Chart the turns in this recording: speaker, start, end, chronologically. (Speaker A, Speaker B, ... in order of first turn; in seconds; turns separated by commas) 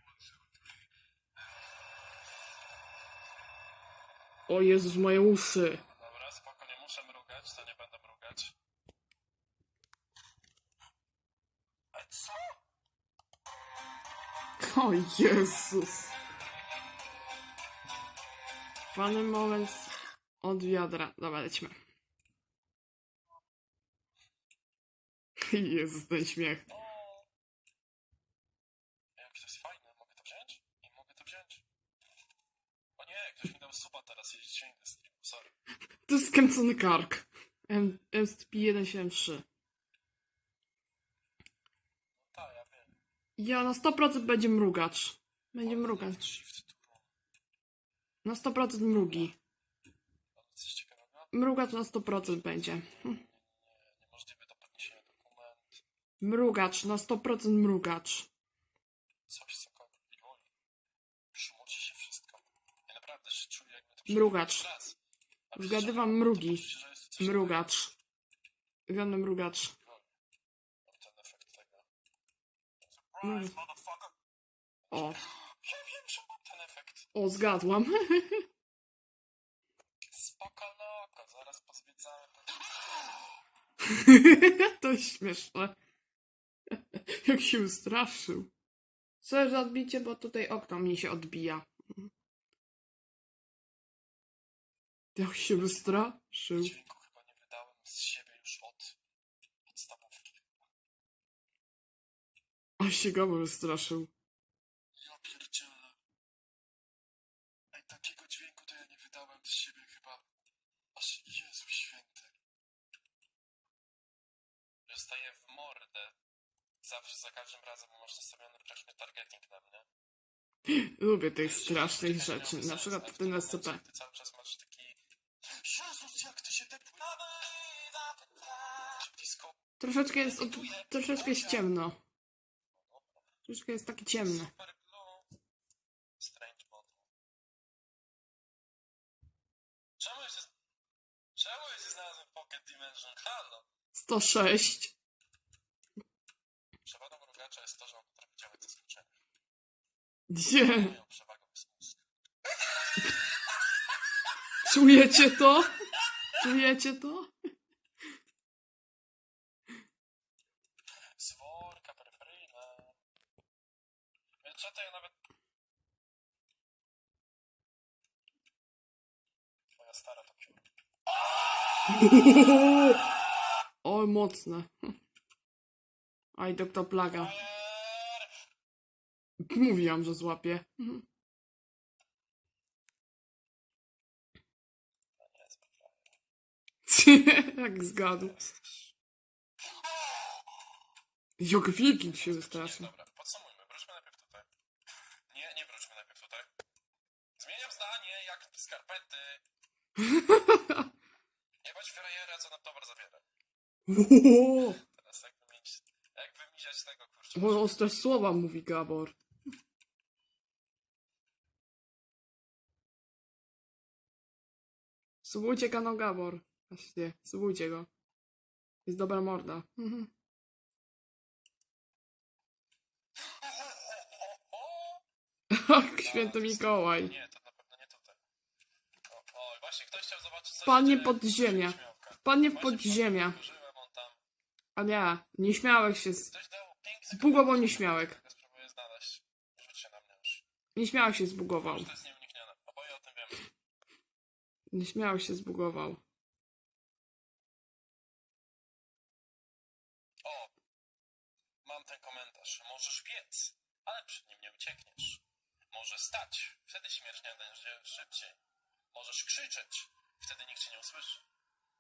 Speaker A: 4.5-5.8, Speaker B: 5.9-8.5, Speaker B: 11.9-12.6, Speaker A: 14.6-16.1, Speaker A: 18.9-21.7, Speaker A: 25.4-26.7, Speaker B: 26.7-27.3, Speaker B: 29.2-31.6, Speaker B: 33.0-35.5, Speaker A: 36.1-39.5, Speaker B: 42.2-43.0, Speaker A: 43.4-46.2, Speaker B: 45.6-47.1, Speaker A: 48.2-49.4, Speaker B: 48.9-49.3, Speaker B: 50.4-55.8, Speaker A: 51.3-53.2, Speaker A: 56.2-58.3, Speaker B: 59.3-60.5, Speaker B: 61.3-65.0, Speaker A: 64.1-64.7, Speaker B: 65.5-67.8, Speaker A: 65.5-66.6, Speaker A: 67.2-67.9, Speaker A: 68.9-69.7, Speaker B: 70.9-71.9, Speaker B: 72.8-74.1, Speaker A: 73.2-73.5, Speaker B: 74.9-77.1, Speaker A: 74.9-75.2, Speaker A: 77.1-78.5, Speaker B: 80.1-83.2, Speaker A: 84.0-85.8, Speaker A: 86.9-88.5, Speaker A: 89.2-92.1, Speaker A: 95.2-96.7, Speaker B: 95.5-99.0, Speaker B: 99.7-100.6, Speaker A: 102.8-104.1, Speaker B: 105.0-106.0, Speaker B: 107.7-110.2, Speaker B: 111.0-112.3, Speaker B: 114.9-116.2, Speaker B: 116.8-119.9, Speaker A: 120.7-123.8, Speaker B: 121.4-129.6, Speaker A: 129.8-132.0, Speaker B: 130.1-131.7, Speaker B: 132.8-133.2, Speaker A: 133.5-134.5, Speaker B: 134.2-135.3, Speaker B: 136.2-137.1, Speaker B: 140.0-140.5, Speaker B: 141.3-143.7, Speaker A: 143.9-144.9, Speaker B: 146.8-149.1, Speaker A: 150.3-150.9, Speaker B: 150.6-152.0, Speaker B: 152.9-153.7, Speaker A: 154.7-155.7, Speaker A: 156.4-157.3, Speaker B: 161.2-163.0, Speaker B: 164.4-165.2, Speaker B: 169.7-170.7, Speaker A: 171.9-173.0, Speaker A: 173.8-174.7, Speaker A: 176.3-177.3, Speaker B: 177.1-178.3, Speaker A: 179.5-181.0, Speaker B: 185.2-186.2, Speaker A: 186.9-188.4, Speaker B: 188.1-188.9, Speaker A: 191.4-192.9, Speaker B: 192.1-194.5, Speaker B: 195.3-196.5, Speaker B: 197.4-199.4, Speaker A: 200.1-200.8, Speaker B: 201.6-203.2, Speaker A: 203.9-204.8, Speaker B: 204.8-208.1, Speaker A: 207.3-209.2, Speaker A: 215.2-217.9, Speaker A: 218.8-220.1, Speaker B: 223.2-225.0, Speaker A: 225.5-227.1, Speaker B: 225.9-228.2, Speaker B: 229.1-234.2, Speaker A: 230.7-233.4, Speaker A: 234.8-236.3, Speaker B: 236.2-240.4, Speaker A: 237.1-238.2, Speaker A: 240.8-241.9, Speaker B: 241.6-243.5, Speaker A: 244.7-246.0, Speaker B: 250.2-250.5, Speaker B: 251.6-258.4, Speaker B: 258.9-261.2